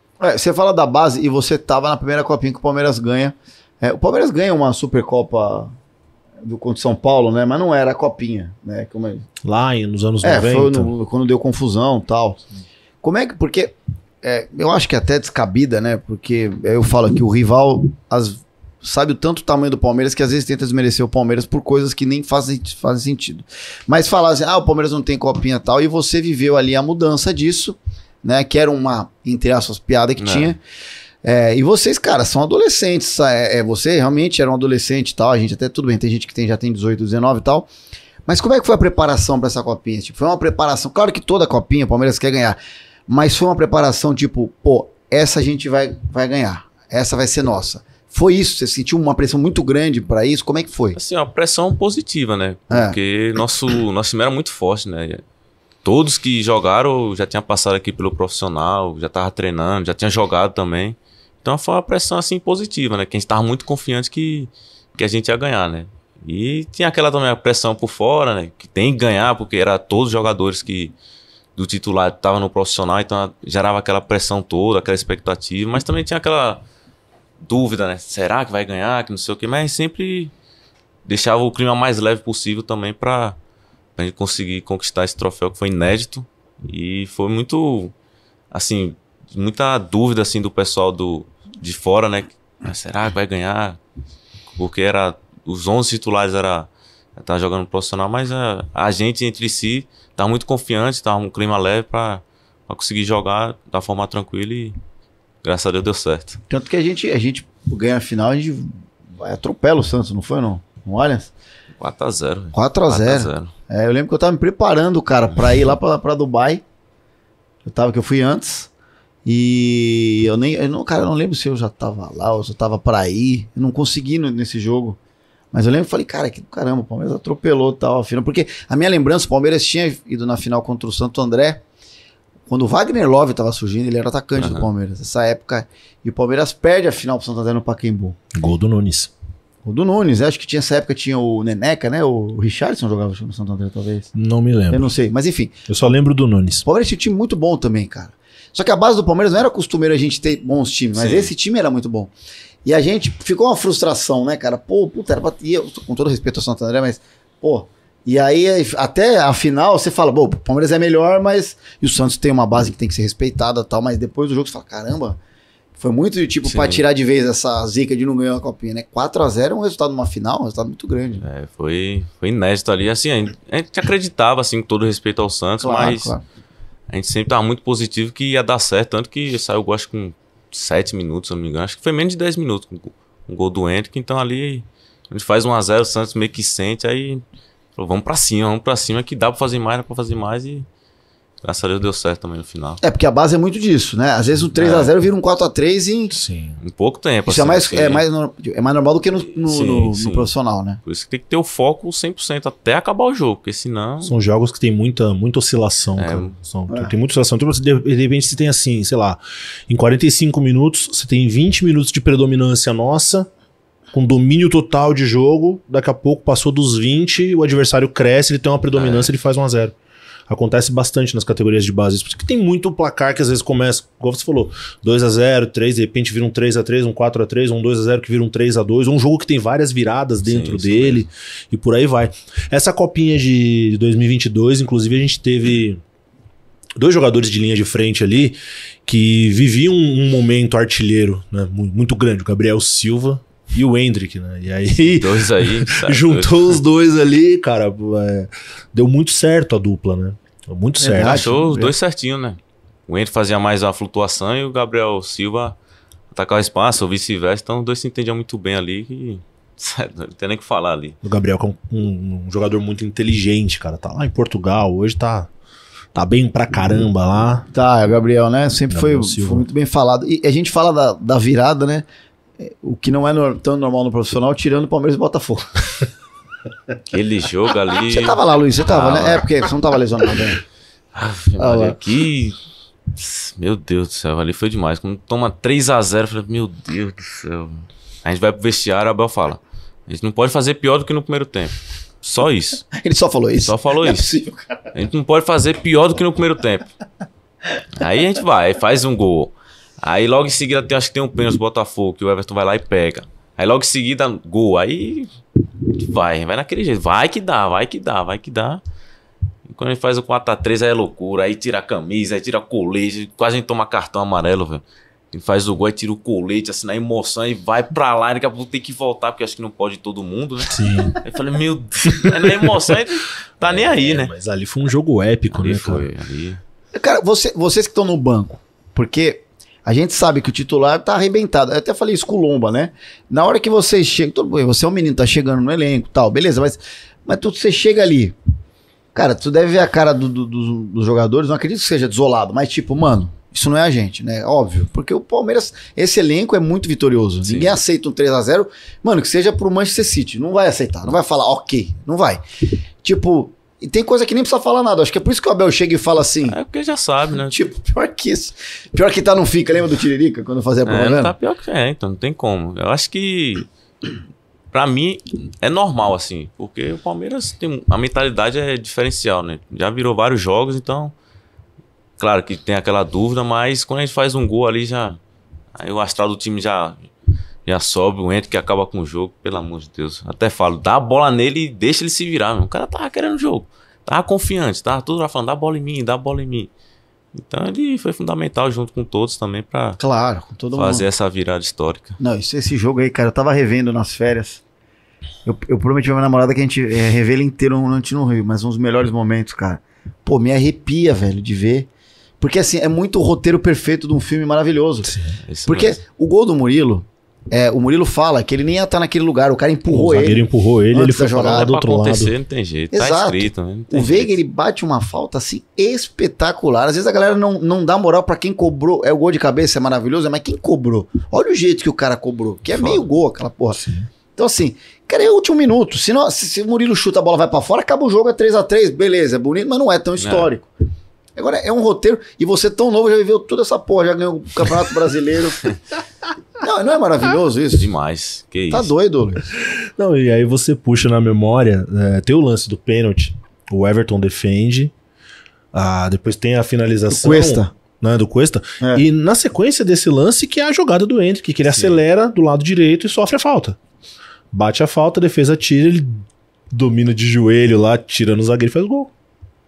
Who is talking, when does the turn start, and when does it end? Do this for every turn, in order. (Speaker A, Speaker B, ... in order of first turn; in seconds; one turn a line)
Speaker A: 0.2-5.7
Speaker A: 6.4-9.3
Speaker B: 9.4-10.9
Speaker A: 10.2-12.4
Speaker A: 13.0-30.6
Speaker C: 30.2-30.6
Speaker A: 31.2-37.7
Speaker A: 38.3-51.0
Speaker C: 51.0-55.2
Speaker A: 52.7-53.0
Speaker C: 55.8-71.0
Speaker C: 71.6-76.6
Speaker C: 77.4-80.3
Speaker C: 81.1-83.4
Speaker C: 84.0-87.9
Speaker C: 88.5-93.8
Speaker C: 94.5-104.8
Speaker C: 105.4-106.4
Speaker A: 106.5-111.3
Speaker C: 111.8-113.5
Speaker A: 112.5-116.6
Speaker A: 117.7-118.7
Speaker A: 119.2-125.0
Speaker A: 125.5-131.6
Speaker A: 132.5-138.2
Speaker C: 134.4-134.7
Speaker B: 138.3-139.1
Speaker A: 139.7-144.1
Speaker B: 144.2-144.9
Speaker A: 144.7-145.6
Speaker B: 145.7-146.7
Speaker A: 146.7-152.1
Speaker C: 150.9-151.3
Speaker A: 152.7-165.2
Speaker A: 165.8-171.2
Speaker C: 166.4-166.8
Speaker C: 171.2-176.1
Speaker A: 175.6-176.2
Speaker C: 176.9-187.2
Speaker C: 187.8-190.7
Speaker C: 191.4-192.8
Speaker A: 192.8-196.2
Speaker C: 194.6-194.9
Speaker B: 196.1-196.6
Speaker C: 196.6-198.0
Speaker A: 197.3-200.8
Speaker C: 199.3-200.3
Speaker C: 200.8-204.1
Speaker B: 204.0-213.3
Speaker C: 206.0-206.3
Speaker B: 213.9-219.7
Speaker C: 218.8-219.1
Speaker B: 220.3-235.8
Speaker C: 230.2-231.0
Speaker B: 236.8-251.2
Speaker C: 245.0-246.6
Speaker A: 250.8-251.7
Speaker C: 251.0-255.6
Speaker C: 256.1-261.0
Speaker B: 261.0-265.3
Speaker B: 265.9-267.4
Speaker A: 267.5-271.9
Speaker B: 268.7-269.5
Speaker A: 272.4-275.6
Speaker C: 276.9-279.3
Speaker A: 277.9-280.4
Speaker C: 280.9-282.4
Speaker A: 281.4-281.8
Speaker C: 282.9-292.6
Speaker A: 292.7-294.7
Speaker C: 293.4-294.2
Speaker C: 294.7-296.7
Speaker C: 297.8-308.6
Speaker C: 309.5-324.1
Speaker B: 320.5-320.9
Speaker B: 322.0-322.8
Speaker B: 323.4-325.9
Speaker C: 325.3-326.4
Speaker A: 326.8-338.1
Speaker A: 338.9-352.2
Speaker C: 347.2-347.6
Speaker A: 352.8-356.4
Speaker C: 356.3-357.4
Speaker A: 357.3-361.1
Speaker C: 360.6-363.5
Speaker C: 364.5-370.9
Speaker C: 372.0-375.0
Speaker C: 375.6-376.8
Speaker C: 377.5-386.5
Speaker C: 387.1-389.8
Speaker A: 389.8-390.9
Speaker C: 390.6-392.0
Speaker A: 392.0-394.4
Speaker A: 395.2-401.7
Speaker A: 402.2-404.9
Speaker B: 404.9-405.1
Speaker C: 405.3-405.8
Speaker A: 405.5-411.5
Speaker B: 409.7-412.1
Speaker C: 411.2-414.1
Speaker A: 412.7-423.6
Speaker C: 422.5-422.9
Speaker B: 423.6-423.9
Speaker A: 424.2-430.5
Speaker C: 430.0-430.3
Speaker A: 431.2-435.4
Speaker A: 436.4-437.7
Speaker C: 437.6-438.7
Speaker A: 438.5-439.3
Speaker B: 439.4-444.7
Speaker B: 445.5-453.6
Speaker A: 446.9-447.5
Speaker C: 451.5-451.8
Speaker B: 454.3-458.9